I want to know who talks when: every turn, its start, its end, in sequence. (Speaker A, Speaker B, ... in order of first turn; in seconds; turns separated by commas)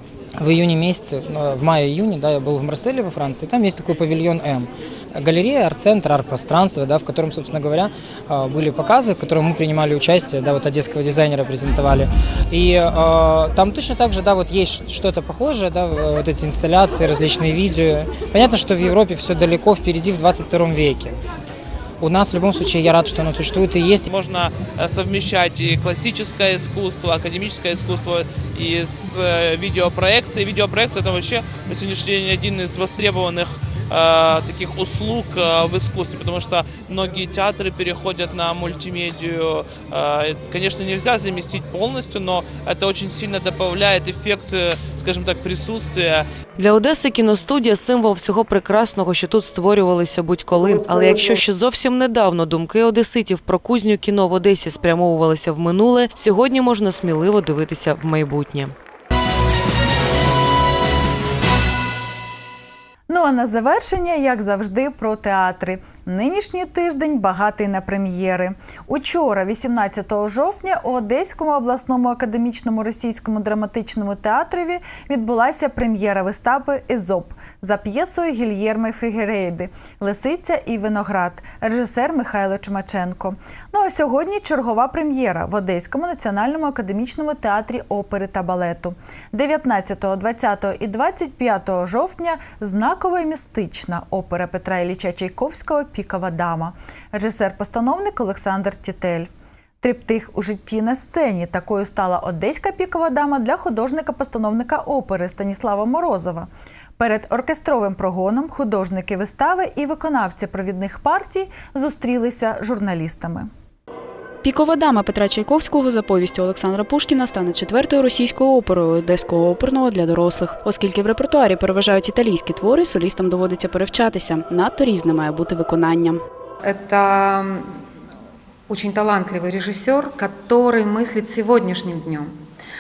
Speaker A: 0.4-21.2, Speaker A: 22.0-24.1, Speaker B: 24.2-33.0, Speaker B: 34.0-46.1, Speaker C: 46.6-58.7, Speaker D: 63.1-99.3, Speaker D: 99.8-113.5, Speaker E: 114.4-126.2, Speaker F: 126.6-127.7, Speaker F: 128.7-132.4